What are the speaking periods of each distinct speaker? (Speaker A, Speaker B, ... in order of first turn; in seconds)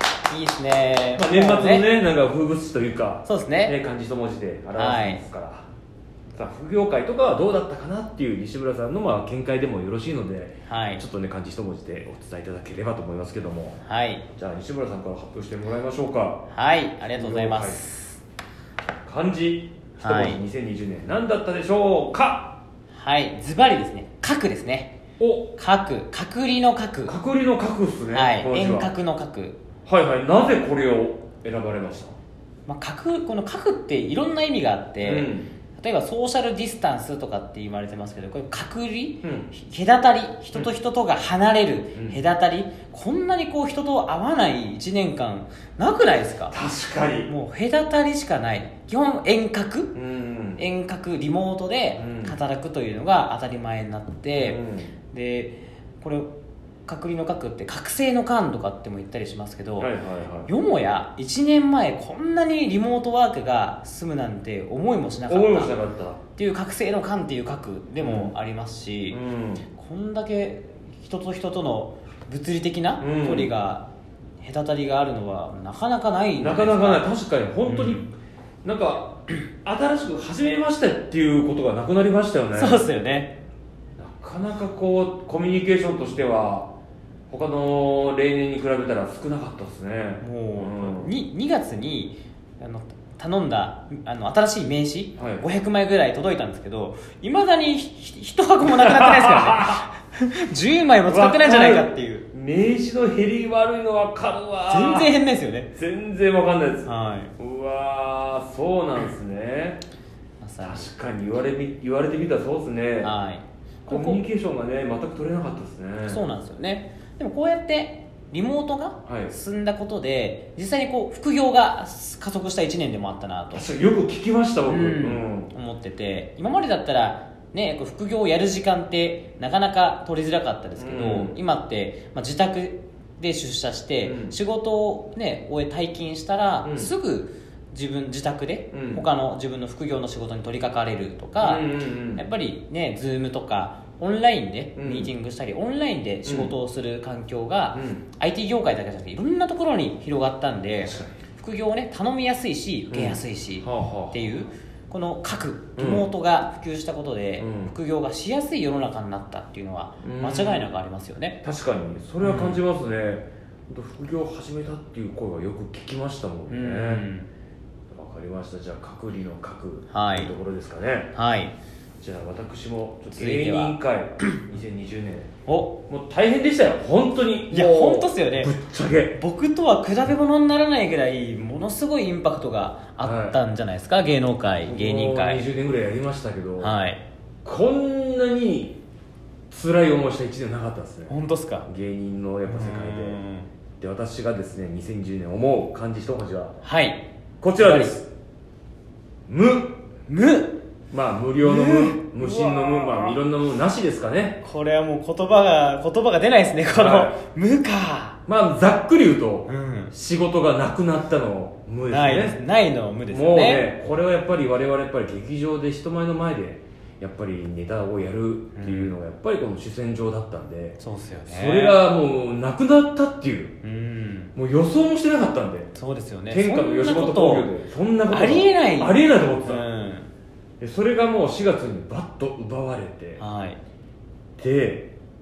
Speaker A: 0.3-1.9, 3.2-3.7, 4.8-5.2, 10.7-11.0, 13.8-14.2, 16.5-18.2, 20.0-20.4, 22.9-24.9, 25.6-27.1, 28.1-29.6, 32.6-46.6, 47.3-49.9, 50.6-54.6, 55.1-56.3, 56.9-59.9, 60.5-65.7, 66.3-69.2, 69.7-73.8, 74.4-77.1, 77.7-78.0, 82.5-83.3, 90.2-102.3, 104.7-105.7, 106.8-107.3, 110.4-110.9, 113.0-114.2, 116.1-123.7, 124.7-161.4, 162.2-162.6, 166.5-167.3, 169.9-170.3, 171.1-171.5, 173.1-174.2, 175.5-175.8, 177.5-178.5, 179.1-185.4, 186.6-187.0, 191.1-191.7, 192.4-193.5, 196.6-197.0, 197.6-198.0, 200.1-200.6, 201.4-203.2, 204.4-208.2, 209.5-209.9, 211.9-213.7, 218.5-218.9, 220.8-221.8, 223.6-224.3, 225.7-227.5, 228.1-230.1, 233.2-233.6
Speaker B: 1.1-5.7, 6.3-13.8, 14.3-16.4, 17.1-17.9, 19.0-22.6, 25.2-25.5, 27.1-28.9, 29.9-32.1, 35.0-35.5, 39.2-39.5, 46.5-47.3, 49.9-50.6, 52.0-52.4, 54.4-54.9, 59.8-60.5, 65.3-66.2, 68.0-68.3, 69.1-69.7, 73.0-73.5, 76.4-78.1, 78.6-82.8, 84.0-86.7, 87.3-91.1, 95.2-95.4, 98.6-99.9, 101.1-105.1, 105.7-109.8, 110.6-113.1, 113.9-116.2, 119.0-119.3, 123.5-125.5, 130.8-131.4, 134.0-134.3, 136.6-136.9, 138.7-139.0, 141.4-142.2, 144.8-145.1, 146.2-146.5, 147.7-148.0, 150.8-151.1, 152.9-154.3, 155.8-156.1, 157.4-157.7, 160.0-160.7, 161.4-167.1, 167.9-171.1, 172.0-175.3, 175.9-179.2, 183.0-183.4, 184.7-186.7, 187.4-188.8, 189.5-191.1, 191.7-193.2, 193.8-196.6, 197.4-198.1, 199.3-199.8, 200.9-204.4, 206.7-207.2, 208.3-212.4, 213.1-223.6, 224.3-225.7, 226.3-229.6, 230.6-233.2, 234.4-234.9